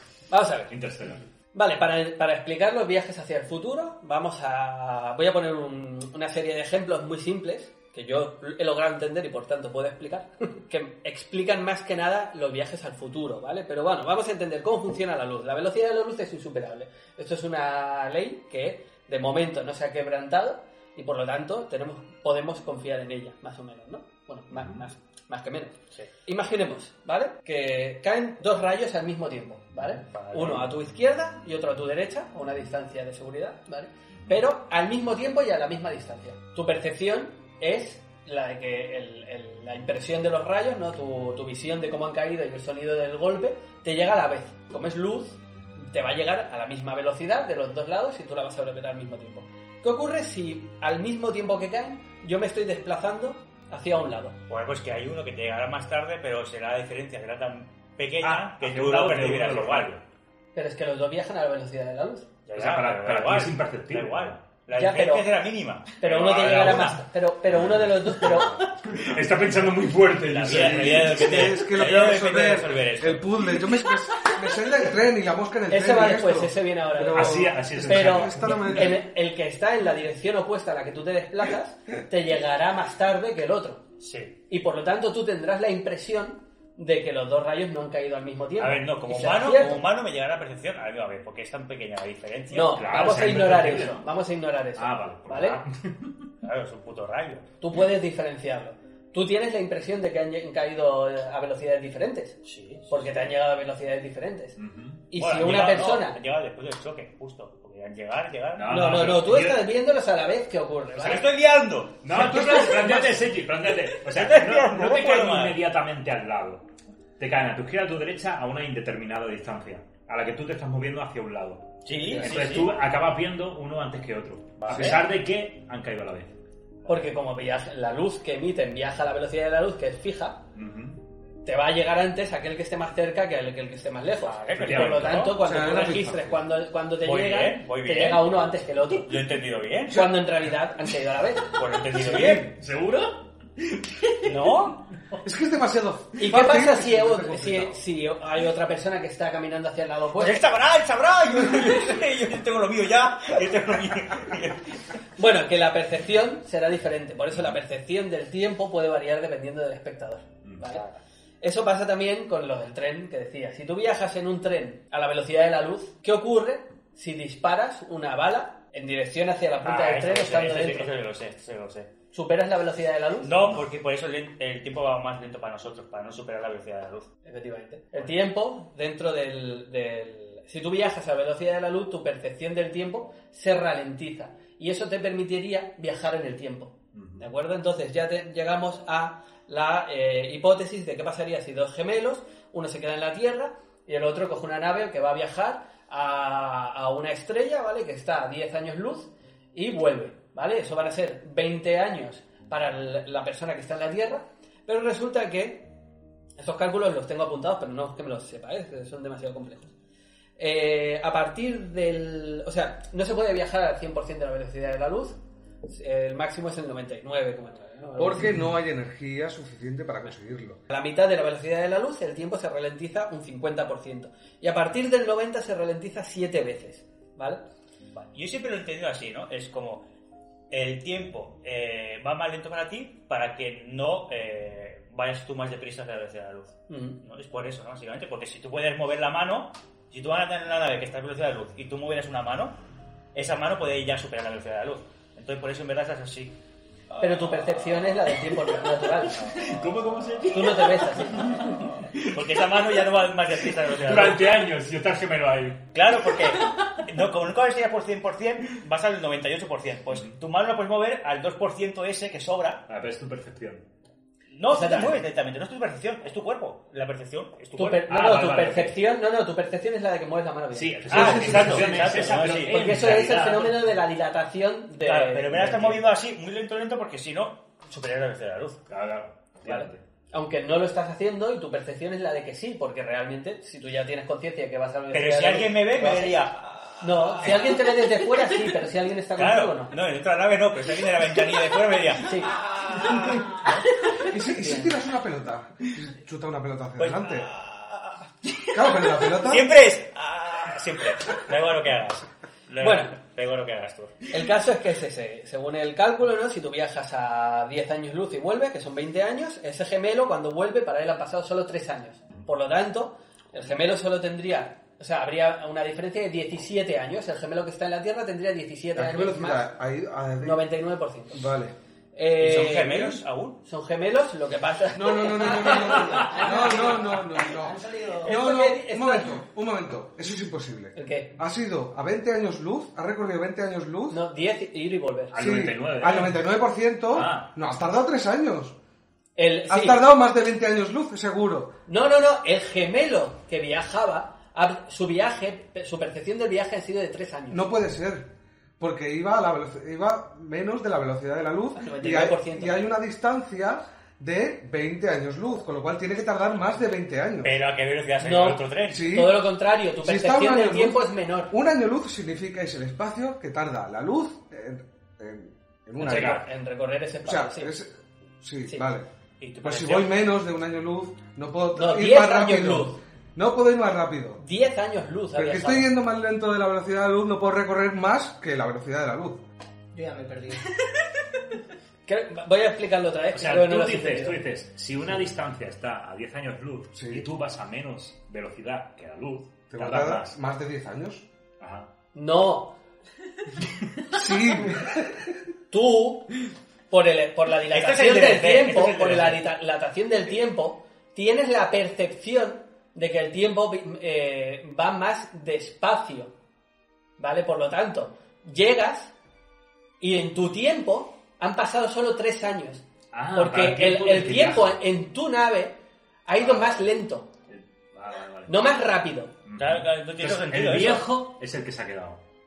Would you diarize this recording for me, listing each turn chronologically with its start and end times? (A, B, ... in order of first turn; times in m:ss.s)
0:00.3-0:00.7 A
0:00.7-0:01.2 B
0:01.5-0:54.4 A
0:24.5-0:24.8 B
0:30.0-0:30.7 C
0:34.2-0:34.4 B
0:54.5-1:00.0 C
0:58.2-1:00.0 B
1:00.5-1:02.3 A
1:02.4-1:07.0 C
1:02.5-1:04.4 B
1:04.7-1:05.2 A
1:06.0-1:08.6 A
1:06.1-1:11.5 B
1:10.2-1:13.6 C
1:11.0-1:19.0 D
1:15.7-1:23.8 A
1:17.1-1:19.0 B
1:24.0-1:24.3 C
1:24.5-1:29.8 A
1:28.6-1:32.8 C
1:32.5-1:35.6 A
1:32.6-1:34.1 B
1:34.8-1:36.3 B
1:36.4-1:37.5 C
1:37.6-1:44.6 A
1:42.4-1:43.3 C
1:44.6-1:45.1 B
1:45.1-1:46.2 A
1:45.1-1:49.0 C
1:48.5-1:49.7 B
1:48.7-1:51.3 A
1:50.9-1:53.0 C
1:52.0-1:56.6 B
1:53.9-1:55.6 C
1:57.2-2:06.3 B
2:01.8-2:02.7 C
2:04.6-2:05.0 C
2:06.8-2:10.4 A
2:10.5-2:11.0 B
2:11.4-2:19.2 A
2:14.2-2:15.4 C
2:14.6-2:15.3 B
2:15.4-2:16.4 D
2:17.0-2:18.3 C
2:19.0-2:20.1 C
2:19.9-2:21.6 A
2:21.5-2:22.5 C
2:21.9-2:25.2 B
2:24.2-2:24.8 C
2:25.2-2:27.8 D
2:26.2-2:30.5 A
2:30.2-2:34.8 C
2:35.2-2:40.8 A
2:40.4-2:40.7 B
2:40.6-2:41.0 C
2:41.4-2:50.9 A
2:49.6-2:51.9 C
2:52.1-2:53.4 A
2:53.2-2:57.1 C
2:57.2-3:25.7 A
3:06.9-3:07.2 B
3:26.4-3:29.7 A
3:30.4-3:38.3 A
3:38.0-3:40.6 D
3:40.7-3:47.4 A
3:47.9-3:49.8 C
3:50.5-4:02.6 C
3:56.7-3:57.0 A
4:03.1-4:06.4 C
4:06.9-4:07.6 C
4:07.0-4:09.2 A
4:09.1-4:12.2 B
4:10.3-4:11.6 A
4:12.0-4:14.4 C
4:13.7-4:16.8 B
4:15.7-4:22.6 C
4:22.7-4:23.6 B
4:24.3-4:27.8 C
4:24.5-4:25.0 A
4:27.6-4:31.7 A
4:27.8-4:28.8 B
4:30.5-4:33.7 B
4:30.9-4:32.6 C
4:32.5-4:35.8 A
4:34.8-4:38.6 C
4:38.7-4:39.8 B
4:39.4-4:46.2 A
4:44.9-4:47.8 C
4:46.8-4:49.7 A
4:49.2-4:53.5 C
4:52.0-4:53.6 A
4:54.0-4:57.3 D
4:56.8-5:04.0 C
4:58.5-4:59.5 D
5:02.6-5:02.9 A
5:04.1-5:19.5 A
5:18.8-5:20.4 D
5:20.2-5:21.2 A
5:21.1-5:21.5 D
5:22.0-5:26.7 A
5:22.2-5:23.4 C
5:24.7-5:34.0 D
5:25.2-5:28.1 E
5:28.0-5:29.2 A
5:30.8-5:31.2 A
5:33.9-5:35.1 A
5:35.1-5:36.2 B
5:35.2-5:38.5 D
5:36.9-5:37.3 B
5:39.2-5:39.8 A
5:39.5-5:41.5 D
5:41.7-5:47.4 A
5:47.3-5:48.1 D
5:48.6-5:57.3 D
5:51.6-5:52.6 A
5:57.2-5:58.9 C
5:58.0-6:01.3 A
5:58.7-5:59.2 D
5:59.8-6:06.2 D
6:05.8-6:07.5 A
6:05.8-6:06.2 B
6:07.0-6:08.9 D
6:09.2-6:10.0 C
6:09.4-6:14.2 D
6:11.5-6:12.8 A
6:14.2-6:15.7 A
6:15.1-6:19.2 D
6:19.7-6:20.5 E
6:21.8-6:24.2 A
6:23.1-6:30.1 B
6:26.7-6:27.0 D
6:29.5-6:31.0 D
6:31.4-6:31.7 B
6:31.9-6:32.5 A
6:33.9-6:35.1 D
6:35.5-6:36.1 A
6:36.7-6:46.1 A
6:37.5-6:39.3 C
6:47.0-6:48.9 A
6:49.8-6:57.1 A
6:52.9-6:54.6 B
6:56.2-6:56.7 B
6:57.3-6:58.4 B
6:58.3-6:59.1 A
6:59.2-7:02.0 B
6:59.4-7:00.9 C